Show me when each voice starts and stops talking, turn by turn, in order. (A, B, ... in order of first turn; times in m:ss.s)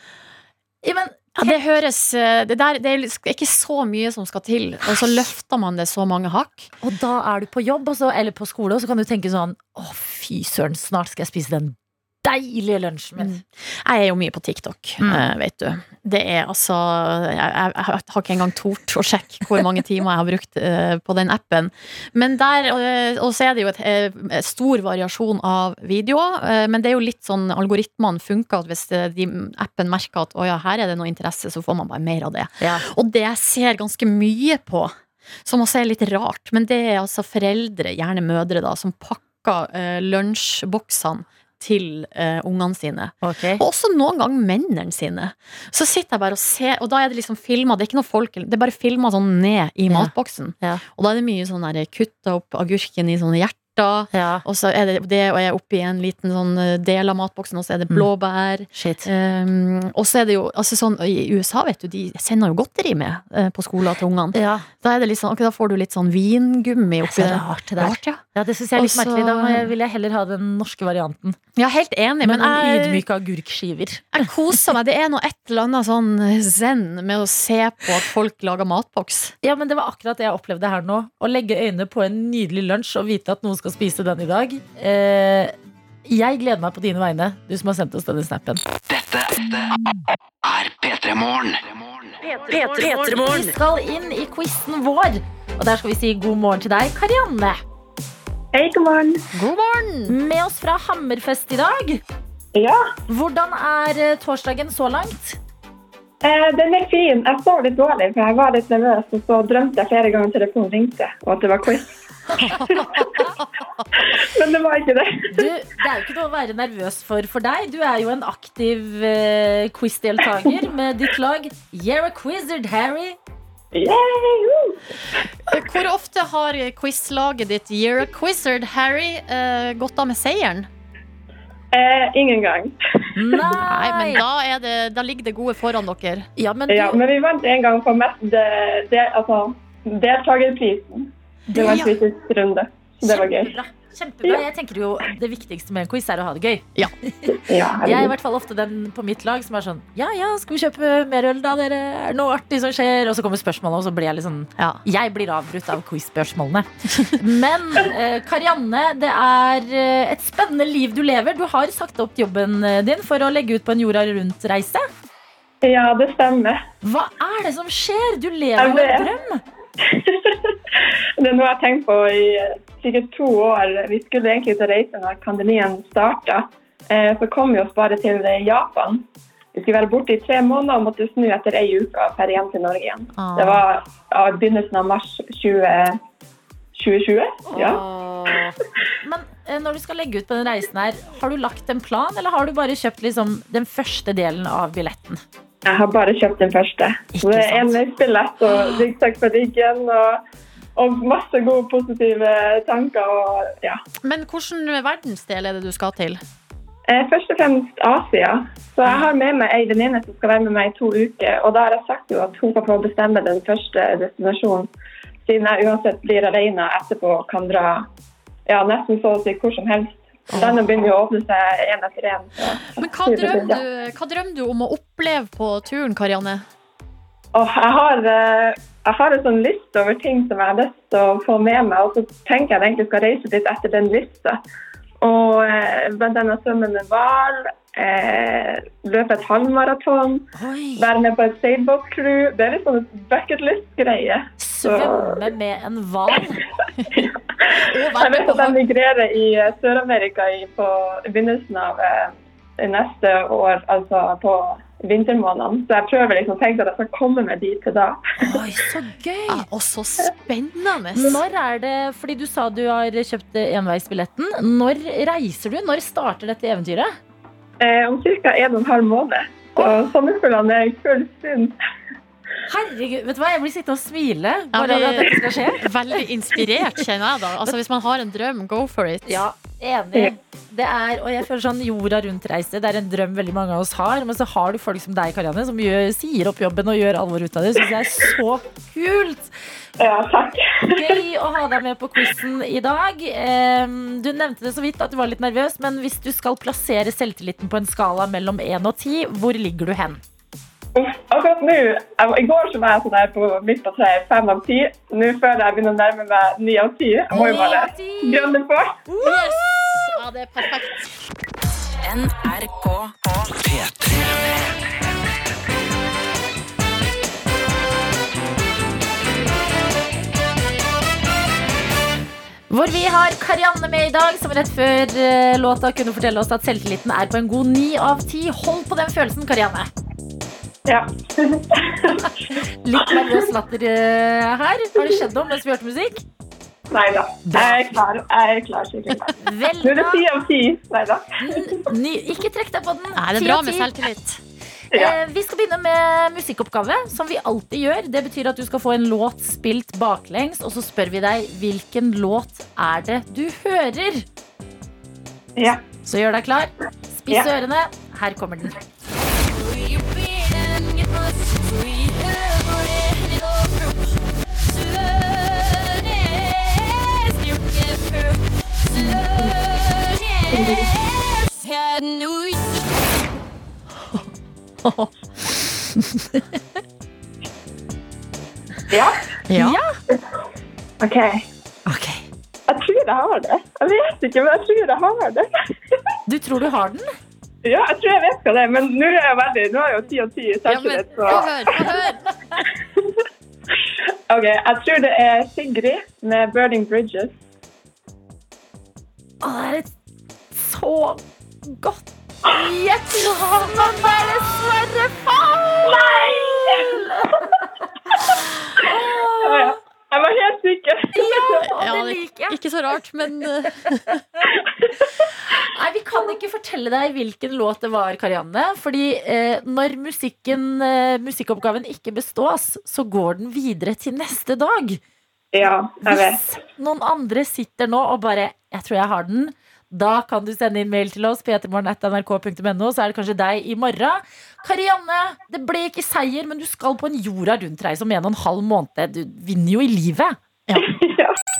0:00.8-0:01.6 A
0:01.4-0:06.7 B
0:06.8-0:13.4 A
0:13.2-1:08.2 B
0:15.0-0:15.3 A
0:43.2-0:43.6 A
0:49.9-0:50.8 A
0:54.1-0:54.4 A
0:58.7-0:59.1 A
1:04.3-1:04.6 A
1:07.0-1:11.4 A
1:08.8-1:09.7 B
1:11.6-1:13.0 B
1:12.2-1:14.2 A
1:14.1-1:19.3 B
1:19.4-1:25.5 A
1:26.0-1:28.6 A
1:28.9-1:29.7 C
1:30.4-1:32.2 C
1:32.2-1:37.6 A
1:32.6-1:33.5 D
1:38.5-1:39.2 E
1:39.3-1:40.2 B
1:40.1-1:42.0 A
1:42.5-1:42.8 E
1:43.1-1:45.4 A
1:46.2-1:51.9 E
1:52.3-1:52.6 A
1:52.4-1:53.4 B
1:53.9-1:55.3 E
1:55.3-2:03.2 A
2:03.7-2:04.8 E
2:05.5-2:10.7 B
2:11.7-2:12.7 E
2:13.2-2:14.2 A
2:13.4-2:16.3 B
2:16.4-2:17.0 A
2:16.7-2:23.5 E
2:21.5-2:21.9 B
2:21.5-2:21.8 A
2:23.0-2:44.9 A
2:27.3-2:28.1 E
2:45.6-2:46.6 E
2:46.8-2:49.4 A
2:48.6-2:49.1 E
2:49.8-2:50.6 E
2:51.2-3:06.0 E
3:03.2-3:03.6 B
3:06.7-3:07.8 E
3:07.5-3:15.2 A
3:15.6-3:20.2 E
3:17.1-3:17.8 A
3:20.8-3:23.8 E
3:24.0-3:26.2 B
3:26.9-3:34.7 E
3:35.2-3:37.8 E
3:38.5-3:43.6 E
3:42.8-3:46.4 B
3:47.3-3:54.4 E
3:55.0-4:00.2 E
4:00.4-4:00.8 A
4:00.8-4:05.2 E
4:04.4-4:06.4 A
4:06.8-4:07.0 B
4:06.9-4:18.4 E
4:07.7-4:08.6 B
4:18.2-4:19.5 A
4:19.3-4:21.2 B
4:21.0-4:27.0 A
4:27.6-4:31.6 E
4:32.5-4:35.6 A
4:34.5-4:39.2 B
4:39.0-4:49.3 A
4:49.8-4:50.9 E
4:50.7-5:00.0 A
5:00.8-5:08.8 E
5:07.1-5:08.4 A
5:08.9-5:09.6 A
5:09.0-5:10.8 B
5:11.8-5:13.1 D
5:13.4-5:14.5 C
5:22.5-5:29.7 A
5:30.6-5:32.0 E
5:32.3-5:36.0 A
5:32.9-5:33.2 E
5:36.7-5:41.6 E
5:37.2-5:37.7 A
5:39.2-5:40.0 A
5:41.2-5:43.7 A
5:43.0-5:44.2 B
5:44.7-5:54.0 A
5:55.4-5:55.6 E
5:55.8-5:58.6 A
6:08.8-6:09.1 B
6:10.3-6:10.6 E
6:14.6-6:14.9 B
6:18.7-6:19.0 E
6:19.3-6:19.6 B
6:19.4-6:19.8 A
6:20.8-6:21.2 E
6:21.6-6:22.0 A
6:22.5-6:25.7 E
6:26.1-6:26.9 A
6:27.4-6:31.6 E
6:30.4-6:32.0 B
6:34.1-6:37.2 E
6:39.2-6:39.7 A
6:40.3-6:47.5 A
6:45.6-6:47.2 E
6:48.6-6:49.6 A
6:49.2-6:51.5 E
6:50.9-6:52.4 A
6:51.5-6:53.8 B
6:55.3-7:04.8 A
7:05.3-7:06.2 E
7:05.4-7:20.2 A
7:20.6-7:21.2 E